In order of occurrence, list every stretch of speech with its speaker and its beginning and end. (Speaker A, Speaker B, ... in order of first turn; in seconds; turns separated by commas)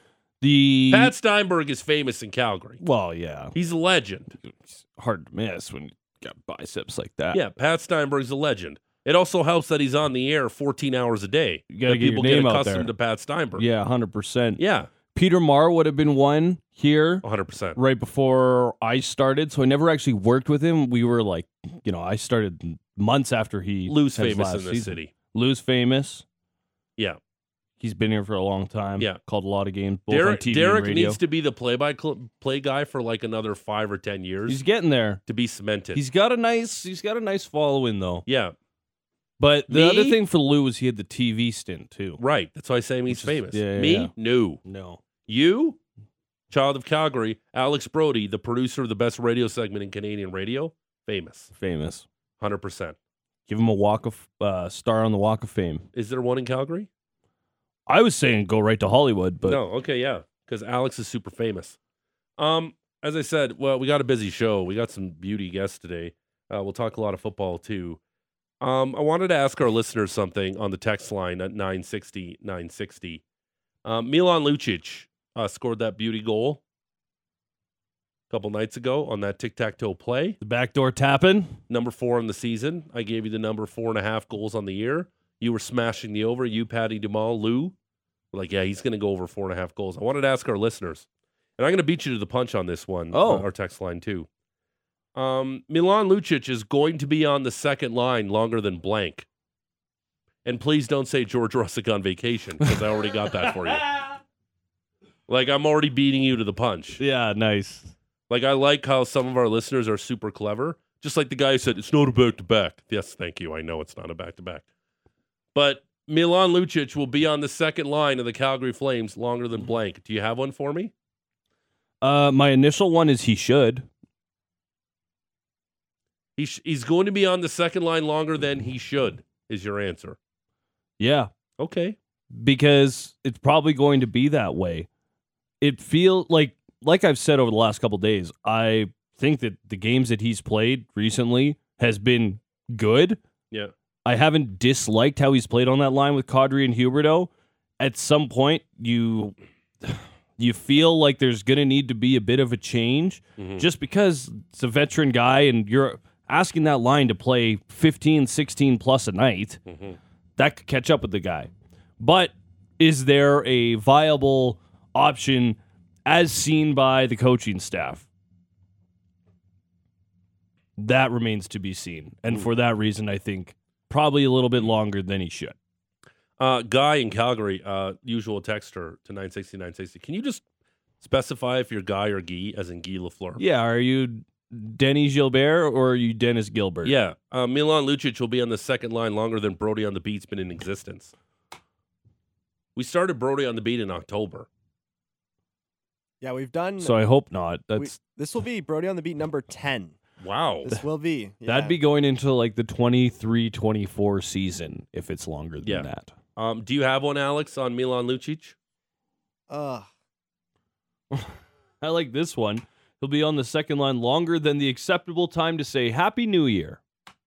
Speaker A: 0.4-1.1, Speaker B: 0.9-2.8, Speaker A: 2.8-3.5, Speaker B: 3.5-4.3, Speaker A: 4.4-7.4, Speaker B: 7.3-13.7, Speaker A: 11.7-12.9, Speaker A: 13.6-14.6, Speaker B: 14.6-14.9, Speaker A: 15.1-17.2, Speaker B: 17.2-17.8, Speaker A: 17.8-26.2, Speaker B: 23.9-25.1, Speaker A: 27.8-31.2, Speaker B: 30.1-34.6, Speaker A: 34.5-35.2, Speaker B: 35.2-36.0, Speaker A: 35.9-38.2, Speaker B: 38.2-38.5, Speaker A: 39.4-42.2, Speaker B: 39.7-40.2, Speaker B: 42.2-44.6, Speaker A: 43.1-44.1, Speaker A: 44.6-45.0, Speaker B: 45.3-45.8, Speaker B: 46.5-51.5, Speaker A: 51.5-52.0, Speaker B: 52.4-53.0, Speaker A: 53.5-55.8, Speaker B: 55.9-56.9, Speaker A: 57.9-59.6, Speaker B: 59.4-61.8, Speaker B: 62.4-68.0, Speaker B: 68.6-73.2, Speaker B: 73.8-76.6, Speaker B: 78.3-80.4, Speaker A: 80.4-81.6, Speaker B: 81.7-87.7, Speaker B: 88.3-91.0, Speaker B: 91.6-94.3, Speaker A: 93.1-93.5, Speaker B: 95.1-99.2, Speaker B: 100.4-103.8, Speaker A: 103.5-104.0, Speaker B: 105.3-107.0, Speaker A: 107.0-107.9, Speaker B: 108.3-114.6, Speaker B: 115.5-120.9, Speaker A: 122.0-123.8, Speaker B: 126.4-130.2, Speaker A: 131.0-131.3, Speaker B: 131.6-131.9, Speaker A: 132.3-134.9, Speaker A: 135.6-143.2, Speaker A: 144.0-159.6, Speaker B: 153.4-153.7, Speaker B: 159.7-160.0, Speaker A: 160.4-168.1, Speaker A: 170.8-175.6, Speaker B: 176.4-180.4, Speaker B: 181.0-183.4, Speaker A: 183.4-186.9, Speaker B: 186.8-191.1, Speaker B: 192.8-194.5, Speaker C: 196.2-197.0, Speaker A: 196.8-197.9, Speaker C: 197.8-199.9, Speaker B: 200.2-200.7, Speaker C: 200.6-201.8, Speaker A: 201.4-206.1, Speaker B: 205.6-208.5, Speaker C: 209.5-209.9, Speaker A: 211.1-216.8